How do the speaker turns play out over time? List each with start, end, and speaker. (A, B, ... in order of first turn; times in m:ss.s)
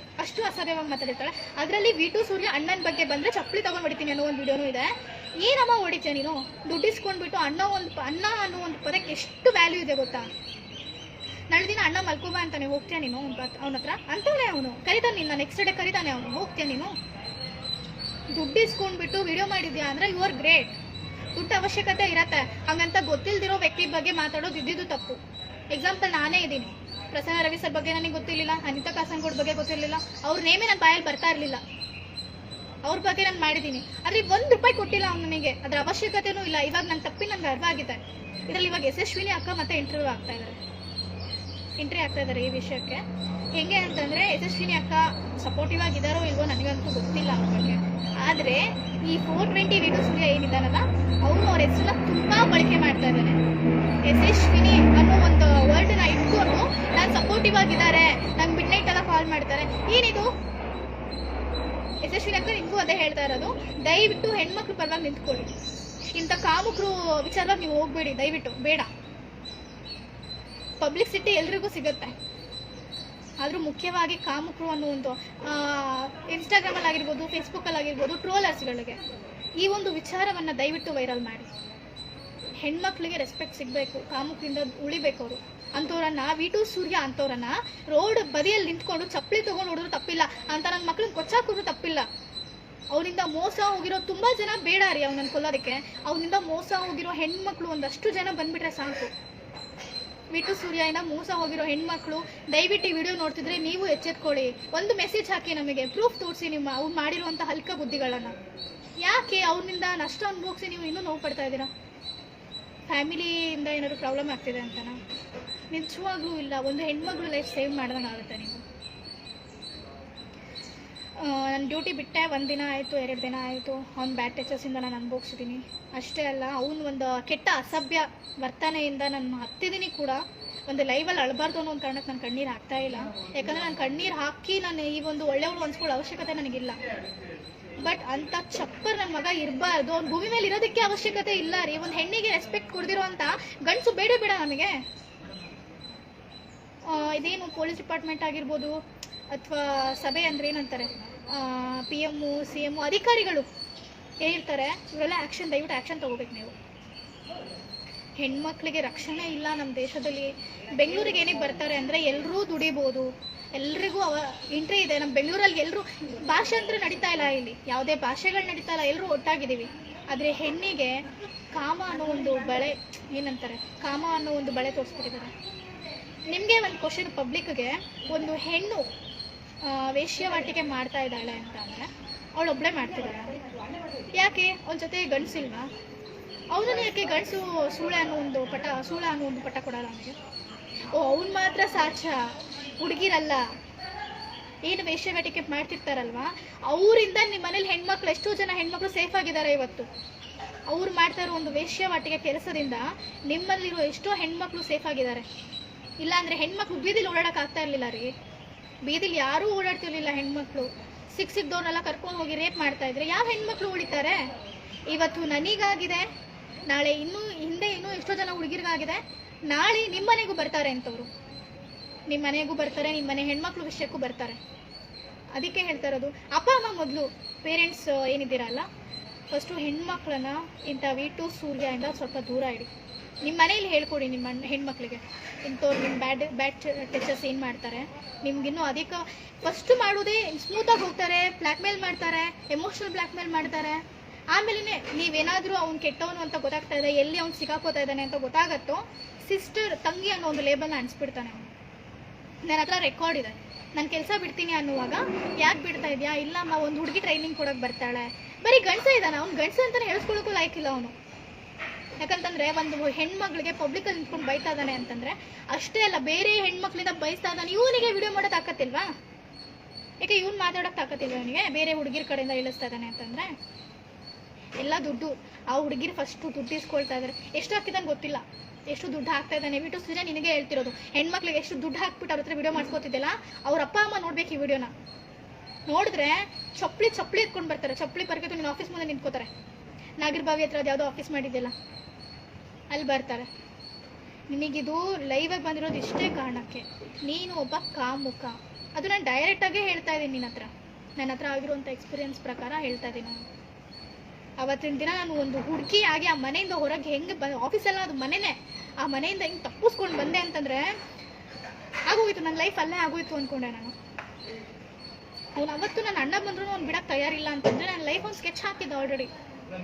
0:00.2-0:10.3 A
0:11.5-0:17.0 A
0:18.3-0:20.8 A
0:21.4-0:25.2 A
0:25.7-0:31.6 A
0:32.8-0:40.6 A
0:41.8-0:43.0 A
0:43.5-0:53.4 A
0:54.0-1:00.3 A
1:02.0-1:05.5 A
1:06.1-1:08.9 A
1:10.8-1:12.2 A
1:13.4-1:19.0 A
1:19.6-1:21.5 A
1:22.6-1:32.1 A
1:32.9-1:39.1 A
1:40.3-1:48.4 A
1:49.0-1:51.7 A
1:52.9-1:55.0 A
1:55.7-1:58.6 A
2:01.2-2:16.8 A
2:17.8-2:24.8 A
2:26.8-2:33.5 A
2:34.2-2:36.6 A
2:38.2-2:55.3 A
2:56.3-2:58.9 A
2:59.6-3:03.4 A
3:04.1-3:05.7 A
3:06.5-3:10.2 A
3:10.9-3:12.3 A
3:12.8-3:13.5 A
3:14.6-3:19.9 A
3:20.7-3:25.3 A
3:26.0-3:28.1 A
3:28.8-3:34.2 A
3:34.9-3:36.1 A
3:36.7-3:41.1 A
3:42.1-3:44.4 A
3:45.4-3:48.7 A
3:49.3-3:52.7 A
3:53.2-4:11.5 A
4:12.5-4:21.0 A
4:22.0-4:28.9 A
4:30.0-4:33.3 A
4:34.6-4:44.7 A
4:45.7-4:49.3 A
4:50.0-4:51.5 A
4:52.7-4:53.3 A
4:54.3-5:03.2 A
5:04.4-5:10.8 A
5:11.9-5:13.8 A
5:15.4-5:19.1 A